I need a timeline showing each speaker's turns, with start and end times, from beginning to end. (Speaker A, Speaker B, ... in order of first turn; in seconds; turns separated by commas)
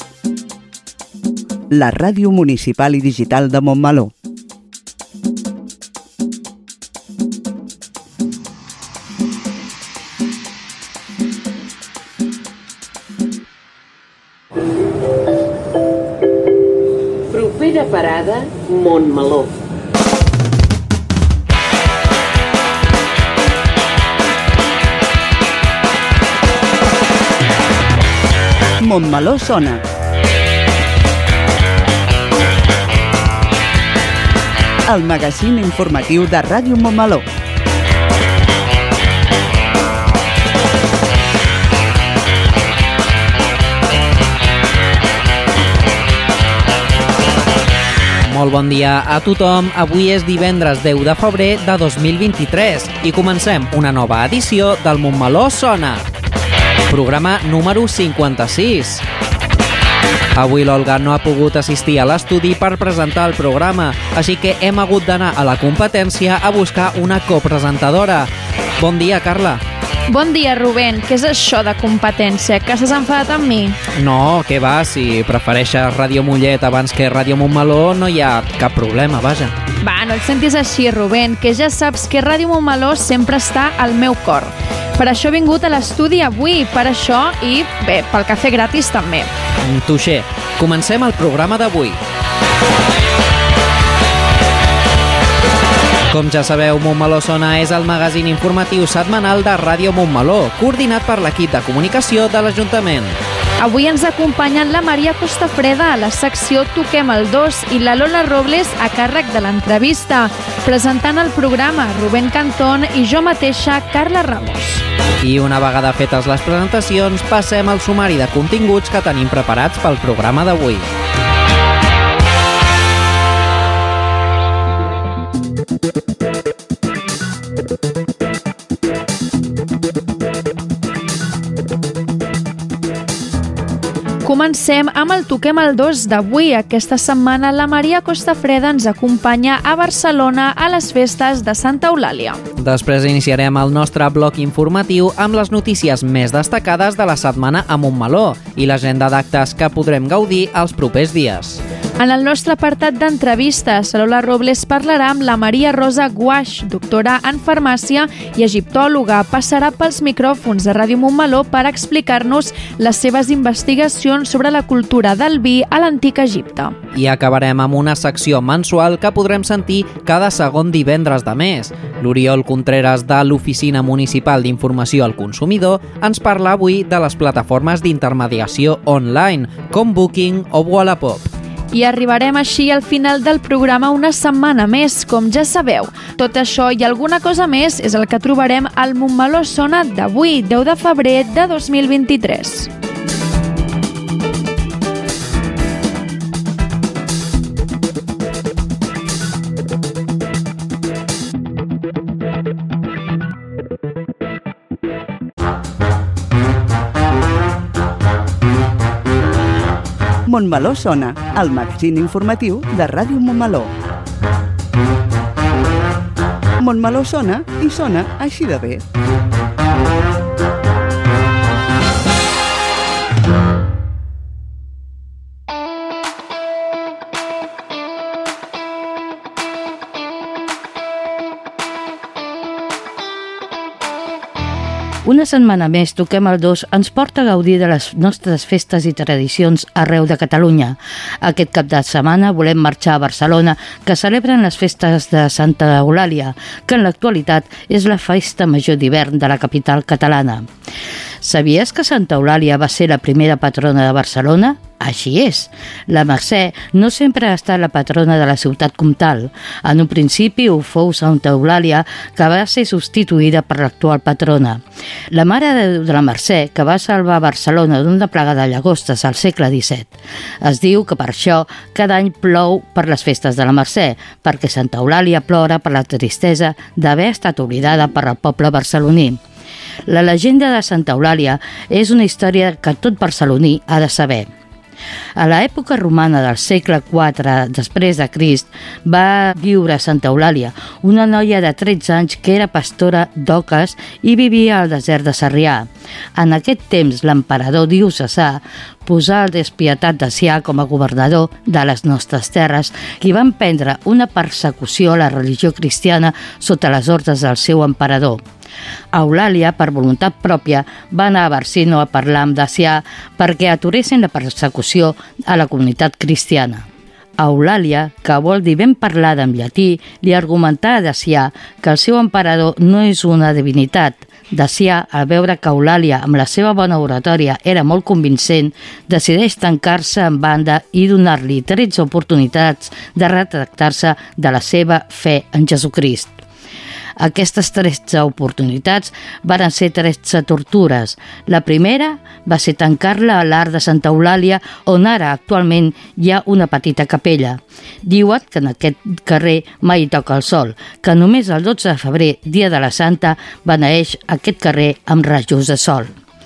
Speaker A: 1.7-4.1, Speaker B: 17.3-19.5, Speaker A: 28.8-29.8, Speaker A: 34.9-37.2, Speaker C: 48.3-56.0, Speaker C: 56.9-59.0, Speaker C: 60.4-69.6, Speaker D: 70.1-73.8, Speaker C: 74.0-79.5, Speaker D: 79.8-89.3, Speaker C: 89.6-92.0, Speaker C: 96.1-103.2, Speaker D: 103.6-114.8, Speaker C: 115.2-120.9, Speaker D: 134.2-142.4, Speaker C: 142.6-151.6, Speaker D: 152.0-166.8, Speaker C: 166.9-181.3, Speaker D: 181.7-192.7, Speaker A: 210.3-213.7, Speaker A: 216.6-218.8, Speaker E: 235.0-250.5, Speaker E: 251.2-279.2, Speaker E: 279.9-284.3, Speaker E: 285.2-308.2, Speaker E: 308.9-316.7, Speaker E: 317.2-336.2, Speaker E: 337.0-356.0